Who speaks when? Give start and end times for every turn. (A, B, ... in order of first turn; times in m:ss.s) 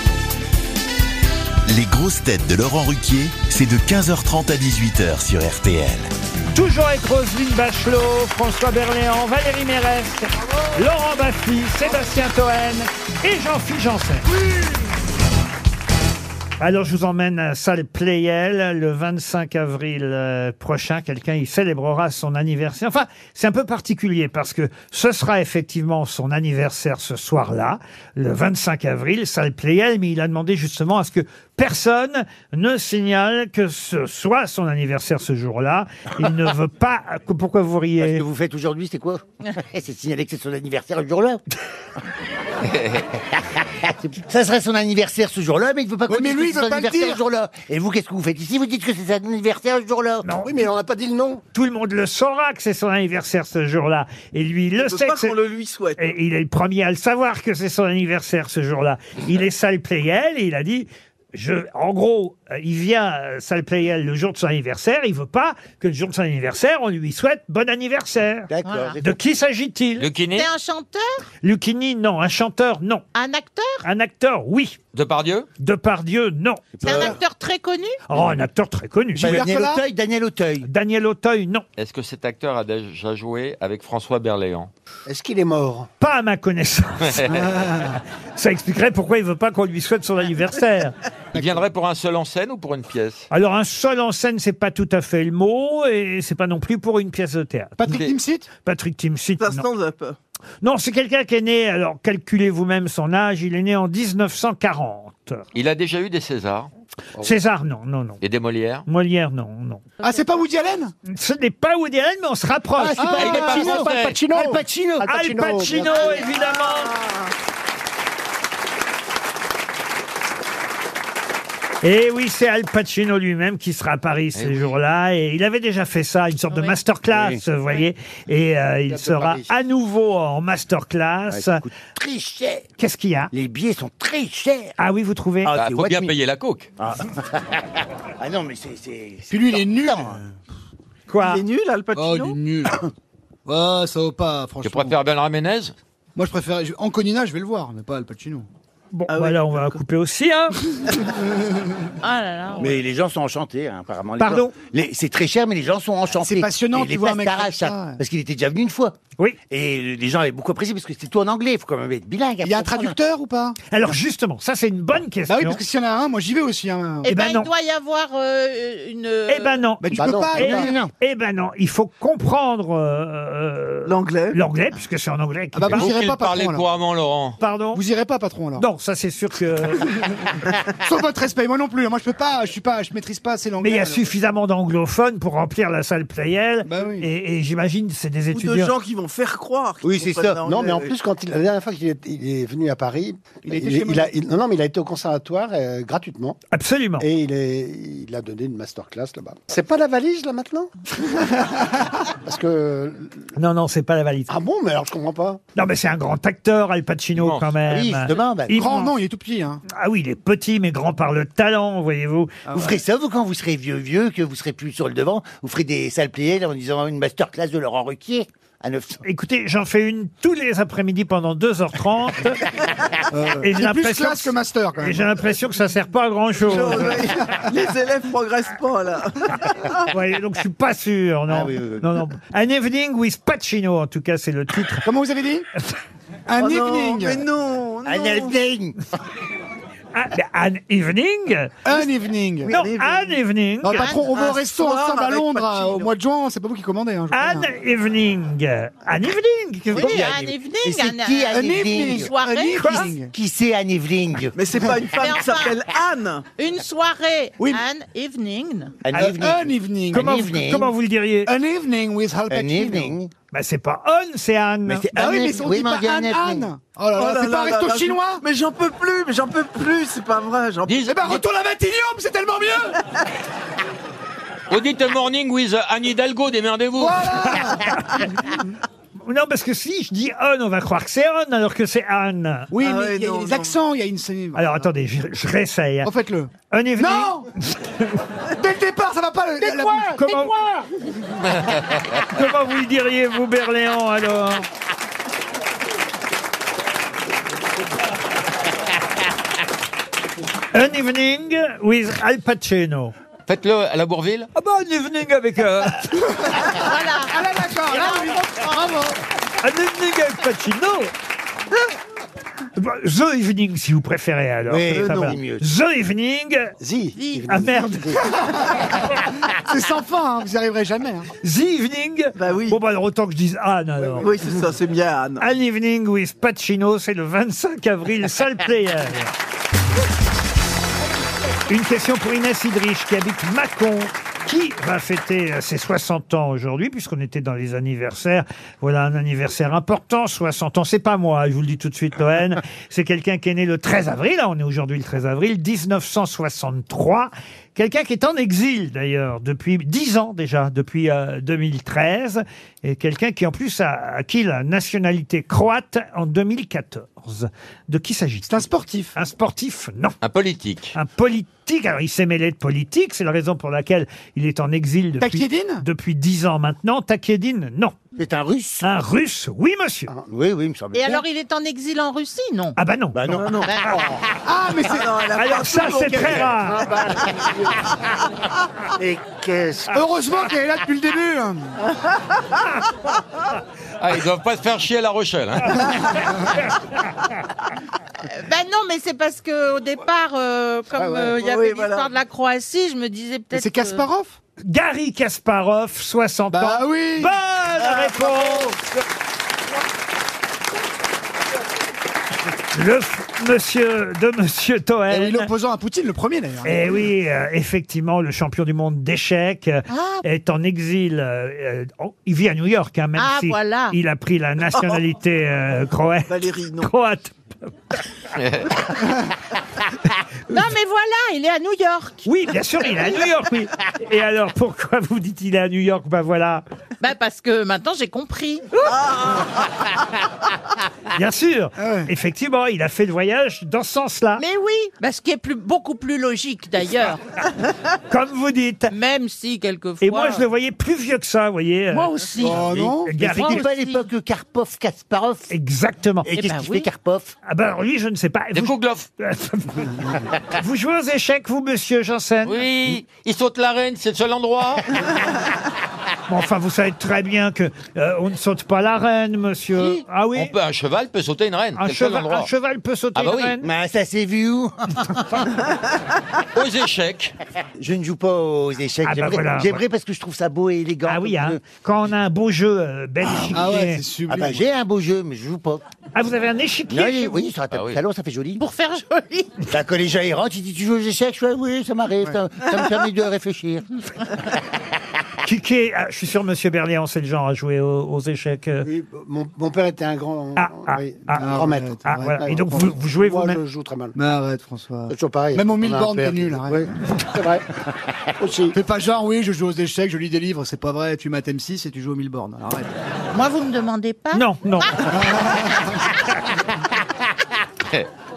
0:01.7-0:06.1 A
0:06.5-0:14.3 B
0:16.6-0:38.2 B
0:38.0-0:41.4 C
0:43.5-0:50.2 C
0:46.1-0:47.2 D
0:50.2-0:50.6 B
0:50.4-0:51.4 E
0:51.5-0:55.4 B
0:54.8-0:56.1 F
0:56.0-1:08.5 B
1:08.5-1:09.2 C
1:08.6-1:09.0 G
1:09.0-1:10.1 B
1:10.0-1:10.5 H
1:10.3-1:11.2 G
1:11.4-1:13.0 B
1:13.1-1:13.8 G
1:13.8-1:14.8 B
1:14.9-1:15.5 H
1:15.6-1:16.8 B
1:16.8-1:17.2 C
1:16.8-1:18.0 G
1:18.1-1:19.5 B
1:19.2-1:20.7 C
1:19.2-1:19.8 D
1:20.6-1:21.6 B
1:21.8-1:24.7 H
1:25.0-1:25.9 E
1:26.0-1:30.9 B
1:27.0-1:27.5 H
1:27.4-1:28.0 D
1:31.3-1:33.3 H
1:31.3-1:31.6 D
1:33.3-1:37.9 B
1:37.8-1:38.5 D
1:37.9-1:38.1 H
1:38.6-1:39.7 B
1:39.4-1:40.2 F
1:40.6-1:45.4 B
1:45.5-1:46.7 H
1:47.2-1:48.2 B
1:48.2-1:48.8 H
1:48.9-1:49.8 B
1:50.0-1:50.9 D
1:51.0-1:53.7 B
1:52.8-1:55.8 C
1:52.9-1:53.9 D
1:53.2-1:54.2 H
1:55.0-1:56.9 B
1:55.2-1:55.7 E
1:55.8-1:56.2 G
2:01.8-2:11.6 B
2:04.3-2:04.8 H
2:07.1-2:07.4 C
2:09.0-2:09.4 E
2:11.3-2:12.7 C
2:12.8-2:13.3 B
2:13.3-2:14.7 C
2:14.8-2:15.6 B
2:15.4-2:16.1 C
2:15.5-2:16.7 H
2:16.8-2:20.2 C
2:19.3-2:20.2 D
2:21.1-2:21.4 B
2:21.2-2:22.4 F
2:21.9-2:22.9 D
2:23.4-2:25.0 D
2:24.6-2:25.7 H
2:26.2-2:28.5 D
2:28.9-2:30.6 B
2:29.1-2:29.8 F
2:31.3-2:31.9 D
2:32.0-2:32.7 G
2:32.6-2:39.0 C
2:34.2-2:34.5 B
2:36.2-2:38.0 D
2:39.5-2:43.0 C
2:42.4-2:43.6 D
2:43.7-2:45.6 B
2:45.3-2:47.1 D
2:47.0-2:49.6 G
2:47.0-2:47.5 B
2:49.3-2:55.9 B
2:49.8-2:50.8 D
2:50.0-2:50.4 E
2:50.4-2:50.9 C
2:53.8-2:54.4 F
2:55.5-2:56.6 D
2:55.7-2:57.4 H
2:57.4-2:57.8 B
2:57.7-2:58.6 D
2:58.6-2:59.9 B
2:59.8-3:04.1 D
3:03.6-3:08.7 B
3:06.6-3:07.1 D
3:08.3-3:10.9 F
3:09.8-3:10.4 C
3:10.0-3:16.4 E
3:13.4-3:14.1 D
3:16.5-3:17.1 B
3:17.0-3:20.7 E
3:22.1-3:23.3 E
3:23.4-3:24.3 B
3:24.3-3:25.4 E
3:25.6-3:28.9 B
3:27.2-3:27.5 H
3:27.6-3:28.6 C
3:28.5-3:29.6 D
3:29.7-3:32.4 B
3:32.5-3:32.8 D
3:32.5-3:39.0 C
3:39.0-3:42.4 B
3:43.1-3:45.1 D
3:43.4-3:47.0 B
3:46.4-3:49.9 F
3:46.6-3:47.5 D
3:49.9-3:54.9 B
3:51.3-3:52.0 C
3:54.8-3:55.5 D
3:56.3-3:57.2 D
3:56.4-3:58.3 F
3:57.8-3:58.8 C
3:59.9-4:01.6 B
4:01.6-4:02.5 D
4:02.5-4:03.2 F
4:02.5-4:03.9 B
4:03.6-4:07.5 D
4:03.7-4:04.1 G
4:03.9-4:05.9 F
4:07.1-4:10.1 B
4:09.7-4:12.1 C
4:09.7-4:13.0 G
4:11.3-4:13.1 D
4:12.6-4:12.9 B
4:13.1-4:14.4 C
4:14.3-4:16.2 F
4:15.0-4:15.6 G
4:16.4-4:18.8 G
4:17.4-4:17.6 D
4:18.8-4:20.7 C
4:18.9-4:20.2 D
4:19.9-4:21.3 B
4:21.2-4:23.0 D
4:22.3-4:23.1 C
4:23.3-4:25.1 B
4:24.6-4:26.5 C
4:24.9-4:28.2 D
4:26.9-4:30.9 F
4:30.7-4:31.2 H
4:30.8-4:32.8 D
4:34.5-4:37.6 H
4:36.7-4:38.4 D
4:39.0-4:42.5 B
4:42.5-4:44.6 D
4:42.6-4:43.6 F
4:44.3-4:45.9 B
4:45.8-4:47.3 D
4:46.5-4:48.0 B
4:48.3-4:50.1 D
4:49.8-4:50.4 B
4:52.0-4:54.5 B
5:00.5-5:02.9 B
5:03.3-5:04.3 H
5:04.3-5:06.0 B
5:06.2-5:09.0 D
5:06.5-5:08.6 G
5:09.4-5:10.9 B
5:12.6-5:16.6 B
5:14.5-5:15.5 C
5:16.6-5:18.0 E
5:16.9-5:17.4 G
5:17.3-5:18.0 B
5:18.0-5:21.1 D
5:21.2-5:24.2 B
5:22.2-5:22.6 F
5:24.0-5:25.3 F
5:25.2-5:29.1 B
5:31.5-6:00.0 B
5:58.2-5:59.0 D
6:00.0-6:00.7 H
6:00.7-6:07.8 B
6:05.0-6:05.6 D
6:08.0-6:08.7 C
6:08.6-6:09.9 B
6:09.9-6:11.0 C
6:10.7-6:12.6 G
6:12.6-6:13.2 B
6:12.9-6:14.0 C
6:13.1-6:13.5 F
6:13.5-6:13.8 G
6:14.2-6:14.9 D
6:14.7-6:16.5 F
6:15.2-6:16.7 B
6:18.8-6:19.8 C
6:19.7-6:21.6 D
6:23.8-6:26.0 H
6:28.0-6:33.9 G
6:30.7-6:31.2 D
6:31.2-6:31.9 F
6:33.3-6:34.2 D
6:34.4-6:38.5 B
6:36.3-6:37.2 D
6:42.5-6:45.3 B
6:44.9-6:46.7 D
6:46.4-6:57.5 B
6:49.7-6:50.0 G
6:53.0-6:53.8 G
6:54.5-6:54.8 F
6:56.1-6:56.7 F
6:58.1-6:58.6 H
7:00.3-7:02.1 G
7:02.0-7:06.4 B
7:06.8-7:08.7 G
7:08.7-7:09.3 F
7:10.9-7:14.2 B
7:11.6-7:11.9 D
7:14.2-7:17.2 G
7:17.9-7:18.7 B
7:18.7-7:20.2 G
7:19.8-7:21.9 B
7:21.7-7:23.8 G
7:22.2-7:23.0 D
7:22.3-7:25.3 C
7:22.8-7:23.4 B
7:25.3-7:26.1 B
7:26.0-7:27.2 C
7:26.2-7:26.7 G
7:27.2-7:32.4 B
7:28.3-7:28.8 H
7:32.2-7:34.8 H
7:36.1-7:40.3 B
7:40.1-7:42.3 H
7:41.6-7:43.4 B
7:43.0-7:43.4 H
7:43.4-7:45.0 C
7:46.3-7:47.1 H
7:47.6-7:51.4 C
7:48.8-7:49.6 B
7:50.8-7:53.8 B
7:53.0-7:54.4 D
7:54.1-7:55.6 C
7:55.9-7:57.2 B
7:56.7-7:58.4 C
7:57.5-7:57.8 H
7:58.4-7:59.4 G
7:59.5-8:03.6 C
8:05.2-8:08.7 B
8:08.6-8:14.0 E
8:10.4-8:11.3 B
8:11.1-8:12.5 D
8:11.8-8:13.4 B
8:13.9-8:16.7 D
8:14.9-8:17.4 E
8:18.2-8:18.5 E
8:18.5-8:22.7 D
8:23.1-8:25.4 G
8:24.1-8:24.9 B
8:24.9-8:25.7 D